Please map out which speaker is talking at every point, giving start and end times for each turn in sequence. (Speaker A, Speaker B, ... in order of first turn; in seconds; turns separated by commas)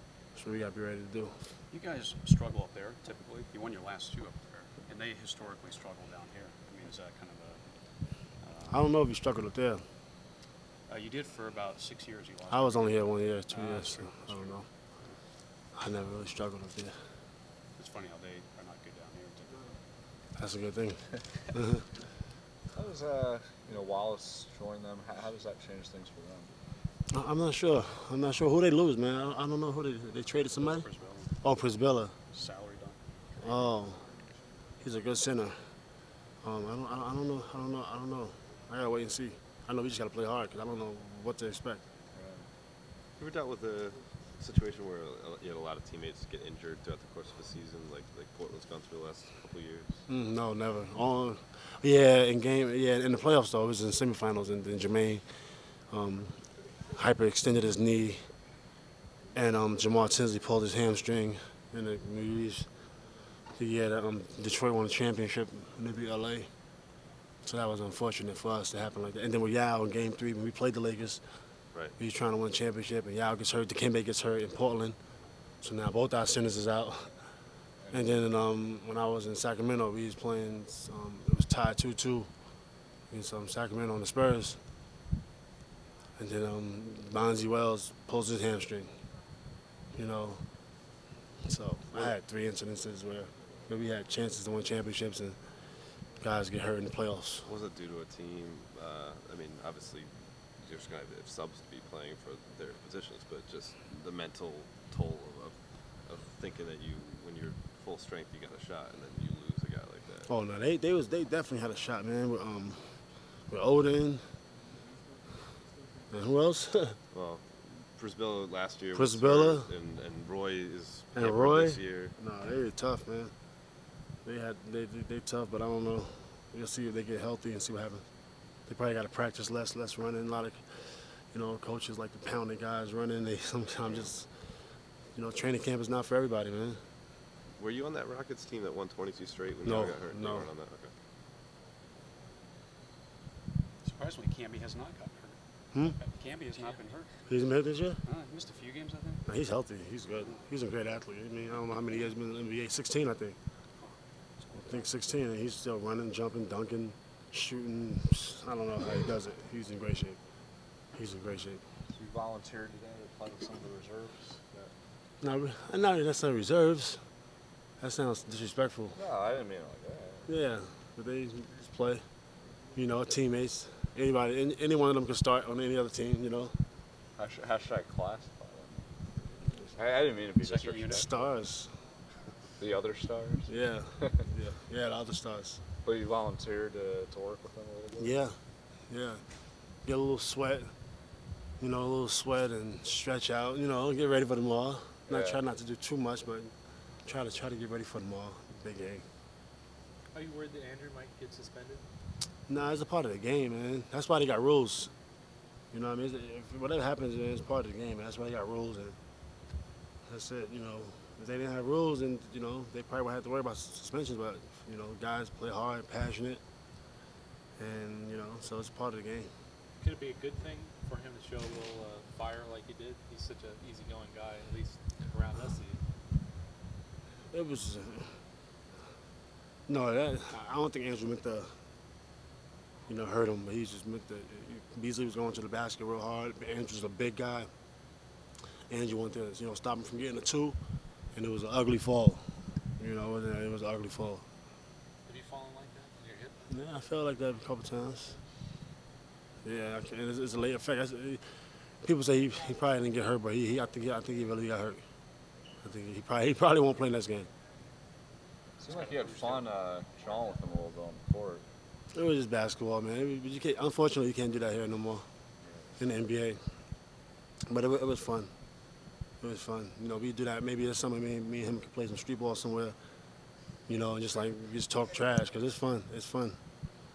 Speaker A: 0.3-1.6, Speaker B: 1.7-7.7, Speaker B: 8.3-9.0, Speaker A: 8.7-9.9, Speaker B: 10.9-14.7, Speaker A: 12.5-14.7, Speaker A: 15.8-17.0, Speaker B: 17.8-19.6, Speaker A: 20.4-21.9, Speaker C: 22.7-26.5, Speaker A: 27.1-30.9, Speaker B: 30.5-31.3, Speaker A: 31.4-32.1, Speaker B: 32.3-33.5, Speaker A: 33.4-34.1, Speaker A: 34.8-35.8, Speaker A: 36.4-41.8, Speaker C: 42.1-42.5, Speaker D: 43.2-50.0, Speaker A: 50.1-58.3, Speaker A: 59.3-62.7, Speaker A: 63.5-66.5, Speaker A: 67.4-71.2, Speaker A: 72.0-75.0, Speaker A: 75.6-77.2, Speaker C: 77.8-78.3, Speaker A: 77.9-82.3, Speaker A: 83.1-84.6, Speaker A: 86.2-89.0, Speaker A: 89.9-90.5, Speaker A: 91.5-95.4, Speaker A: 96.2-97.5, Speaker D: 97.4-110.3, Speaker A: 110.3-114.4, Speaker A: 116.1-117.0, Speaker D: 117.1-122.2, Speaker A: 118.9-119.7, Speaker A: 121.2-123.3, Speaker A: 124.2-128.0, Speaker A: 128.7-134.5, Speaker A: 135.2-136.8, Speaker D: 137.6-140.9, Speaker A: 139.6-140.5, Speaker B: 143.8-147.2, Speaker A: 147.3-148.0, Speaker B: 148.1-149.2, Speaker A: 149.3-153.4, Speaker A: 154.5-160.2, Speaker A: 160.9-161.6, Speaker C: 161.9-164.7, Speaker A: 165.2-167.0, Speaker A: 167.8-169.0, Speaker C: 168.9-170.3, Speaker A: 170.3-172.1, Speaker A: 172.8-176.6, Speaker C: 177.2-178.9, Speaker C: 179.7-181.3, Speaker B: 180.4-181.1, Speaker A: 180.9-181.7, Speaker C: 182.6-184.2, Speaker A: 183.5-185.6, Speaker C: 185.8-188.2, Speaker A: 188.0-188.4, Speaker A: 188.9-189.2, Speaker A: 189.8-190.7, Speaker A: 191.6-196.5, Speaker C: 195.1-195.4, Speaker A: 197.1-199.1, Speaker E: 200.1-201.9, Speaker A: 202.5-204.9, Speaker A: 205.7-209.0, Speaker A: 210.1-216.4, Speaker A: 217.6-219.3, Speaker E: 219.8-225.8, Speaker A: 227.3-228.2, Speaker A: 229.7-231.6, Speaker A: 232.9-237.5, Speaker A: 238.7-240.6, Speaker A: 241.1-244.2, Speaker E: 245.1-246.4, Speaker A: 246.5-248.2, Speaker A: 249.4-251.2, Speaker A: 251.8-254.8, Speaker A: 255.6-257.3, Speaker C: 258.6-261.4, Speaker B: 258.7-259.3, Speaker A: 261.9-265.1, Speaker C: 265.4-265.8, Speaker A: 265.8-266.4, Speaker A: 267.5-268.3, Speaker A: 269.2-272.8, Speaker A: 273.7-276.4